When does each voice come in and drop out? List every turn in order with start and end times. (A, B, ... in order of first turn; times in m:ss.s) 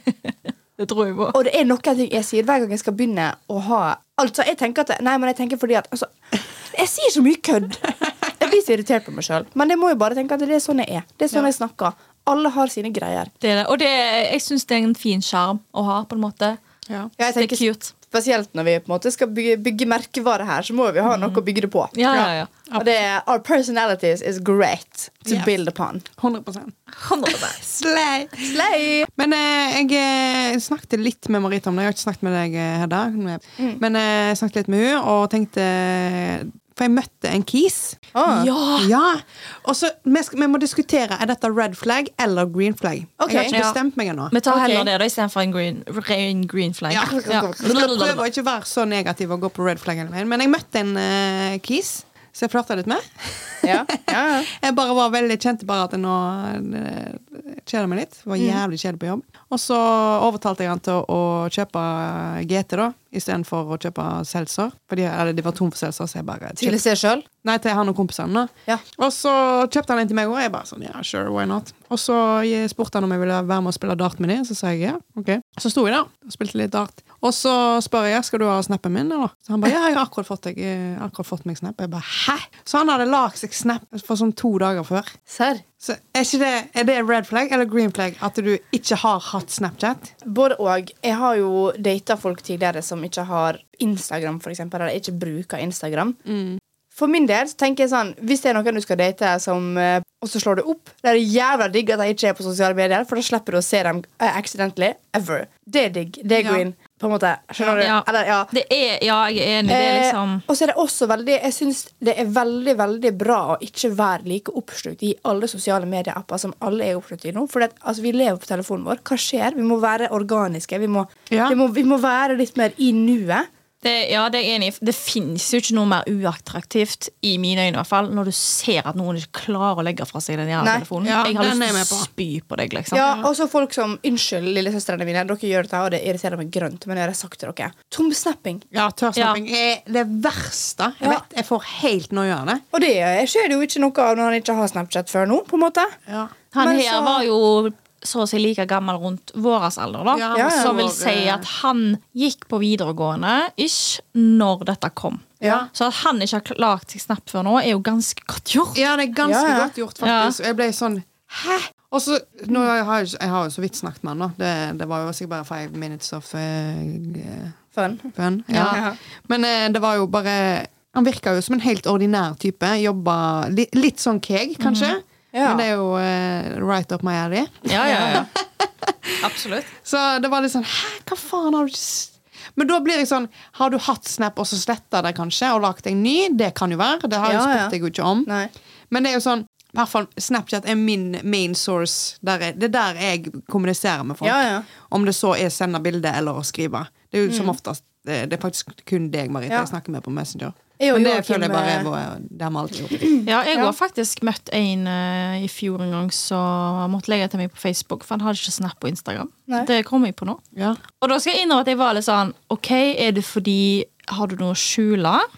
0:00.3-0:01.4 A
0:01.3-0:13.3 B
0:13.4-0:16.6 A
0:17.2-0:21.9 B
0:17.4-0:17.9 A
0:21.1-0:21.4 A
0:21.9-0:22.5 A
0:22.1-0:22.9 C
0:22.8-0:26.0 B
0:26.2-0:26.8 C
0:27.0-0:27.8 A
0:27.3-0:28.6 C
0:28.4-0:29.1 B
0:29.2-0:38.0 C
0:38.1-0:38.5 B
0:38.3-0:38.9 A
0:38.8-0:44.3 C
0:43.2-0:43.5 B
0:43.5-0:43.8 A
0:44.3-0:48.2 A
0:44.5-0:44.9 B
0:46.9-1:06.8 C
0:47.2-0:47.5 B
0:53.6-0:54.5 B
1:06.6-1:07.2 B
1:07.4-1:25.2 C
1:25.3-1:25.6 B
1:25.8-1:30.1 C
1:30.2-1:36.2 B
1:36.2-1:36.6 C
1:36.9-1:48.5 B
1:46.4-1:46.6 C
1:47.6-1:47.8 C
1:47.8-1:50.4 A
1:49.7-2:03.5 B
2:01.3-2:01.6 C
2:03.8-2:13.1 A
2:10.6-2:10.8 B
2:11.0-2:12.1 C
2:12.9-2:18.6 B
2:13.0-2:13.2 C
2:18.7-2:22.6 C
2:22.7-2:26.0 B
2:26.1-2:26.4 C
2:26.5-2:38.8 A
2:26.6-2:27.2 B
2:30.1-2:31.4 C
2:30.3-2:31.4 B
2:35.4-2:35.7 C
2:38.7-2:47.6 C
2:39.2-2:39.7 B
2:40.0-2:40.4 A
2:47.8-2:48.1 B
2:48.1-3:08.3 C
2:48.5-2:48.8 A
2:48.7-2:49.0 B
2:54.6-2:54.9 A
2:55.3-2:55.6 B
2:57.7-2:58.3 A
2:57.8-2:58.3 B
2:59.2-2:59.7 A
3:07.2-3:07.8 B
3:08.2-3:08.5 B
3:08.9-3:23.1 C
3:14.2-3:14.6 B
3:17.3-3:17.6 B
3:20.8-3:21.9 B
3:23.0-3:23.8 B
3:23.2-3:30.4 A
3:30.5-3:30.8 C
3:31.0-3:35.3 A